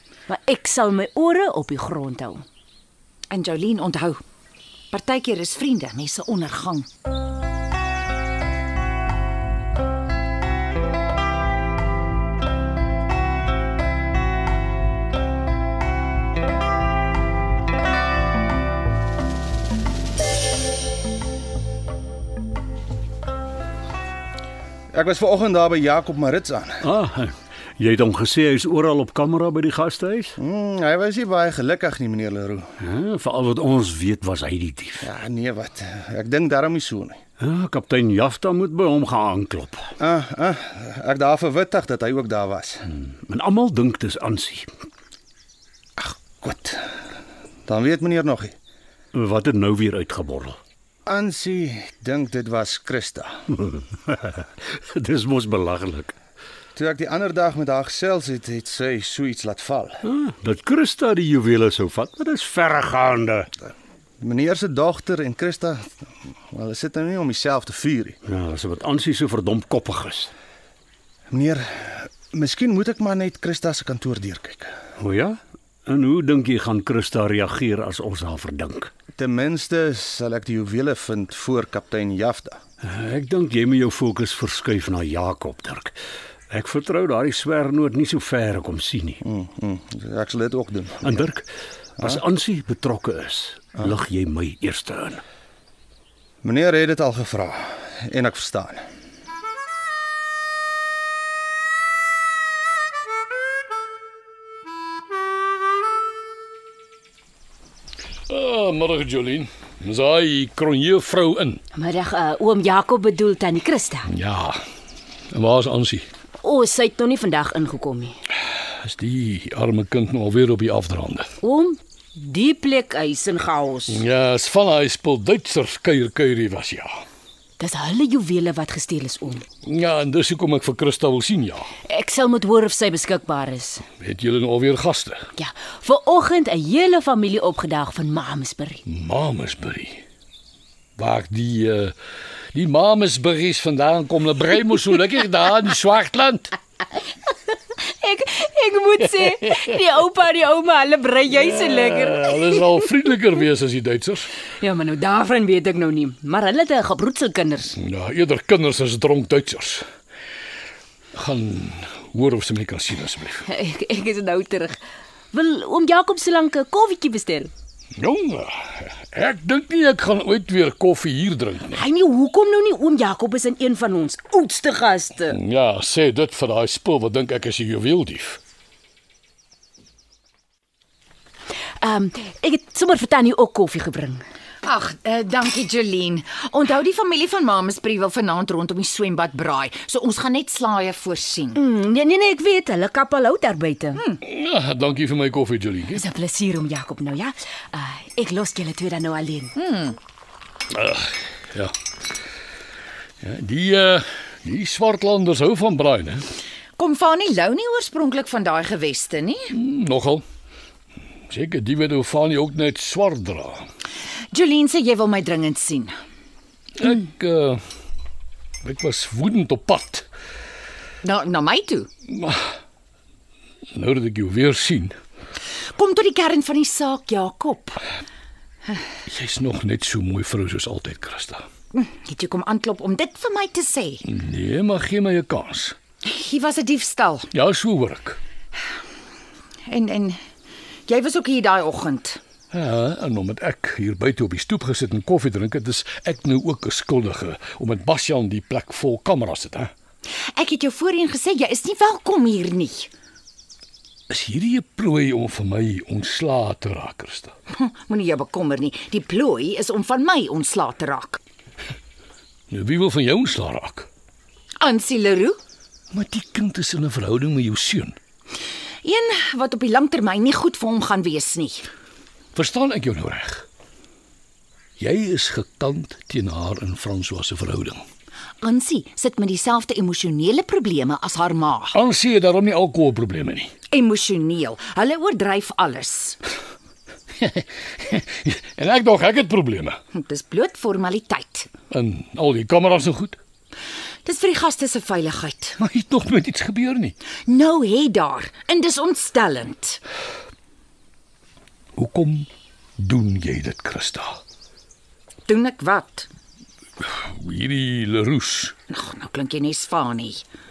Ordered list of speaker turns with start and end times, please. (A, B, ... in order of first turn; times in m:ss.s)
0:00.3-0:02.4 A
0:03.3-0:04.2 B
0:04.9-0:06.9 B
0:24.9-0:26.8 C
0:26.9-0:30.3 D
0:30.4-0:32.7 C
0:32.9-0:35.0 D
0:35.0-0:37.2 C
0:37.4-0:39.8 D
0:40.0-0:42.9 C
0:43.0-0:44.7 D
0:46.0-0:46.9 C
0:47.7-0:48.6 C
0:49.2-0:50.6 D
0:51.1-0:53.4 C
0:53.6-0:56.1 D
0:56.8-1:00.0 C
1:00.1-1:03.5 D
1:04.2-1:08.2 C
1:08.3-1:10.3 D
1:11.3-1:14.7 C
1:15.0-1:18.9 D
1:19.2-1:22.6 C
1:22.8-1:25.9 D
1:26.5-1:29.2 D
1:29.2-1:31.2 C
1:31.1-1:31.4 D
1:32.1-1:35.2 D
1:36.4-1:38.9 C
1:48.3-1:51.6 E
1:51.7-1:54.1 A
1:54.1-1:54.6 E
1:55.3-1:56.1 E
1:56.4-1:58.2 A
1:58.8-2:01.3 E
2:01.4-2:04.0 A
2:03.9-2:06.9 E
2:07.6-2:09.4 A
2:09.6-2:11.7 E
2:11.9-2:13.8 A
2:14.0-2:15.3 E
2:15.4-2:18.8 A
2:18.9-2:20.0 E
2:21.0-2:22.0 E
2:22.5-2:26.6 E
2:27.8-2:32.7 A
2:31.3-2:34.3 E
2:34.6-2:37.8 A
2:37.8-2:39.8 E
2:41.2-2:43.4 E
2:43.4-2:44.8 A
2:45.3-2:47.5 A
2:48.0-2:51.8 E
2:51.7-2:55.4 A
2:55.3-2:58.4 E
3:01.8-3:04.2 A
3:04.6-3:11.6 B
3:11.5-3:14.0 A
3:14.2-3:16.0 E
3:15.9-3:19.6 A
3:19.6-3:20.0 B
3:20.7-3:21.7 E
3:23.2-3:26.2 E
3:26.8-3:29.5 B
3:29.5-3:30.2 E
3:31.3-3:33.7 E
3:34.3-3:35.9 B
3:36.8-3:37.6 E
3:38.6-3:40.1 E
3:41.0-3:41.9 B
3:42.1-3:42.4 E
3:43.7-3:45.0 E
3:45.8-3:47.8 B
3:49.1-3:51.5 E
3:51.7-3:54.0 B
3:54.0-3:55.8 E
3:56.0-3:57.3 B
3:57.3-3:58.2 E
3:59.7-4:00.2 B
4:00.9-4:02.2 B
4:02.5-4:09.7 E
4:10.1-4:12.9 B
4:14.1-4:17.3 E
4:17.5-4:21.2 B
4:22.5-4:23.9 E
4:24.6-4:25.4 B
4:25.9-4:28.0 E
4:28.8-4:31.7 B
4:32.4-4:33.5 E
4:34.8-4:37.8 E
4:38.4-4:41.8 B
4:41.7-4:43.5 E
4:43.7-4:46.2 B
4:47.2-4:49.8 E
4:49.9-4:51.5 B
4:51.7-4:53.2 E
4:54.0-4:55.6 B
4:55.6-4:57.0 E
4:57.3-4:59.8 B
5:01.8-5:04.2 E
5:05.3-5:06.1 B
5:06.8-5:08.6 E
5:08.7-5:10.2 B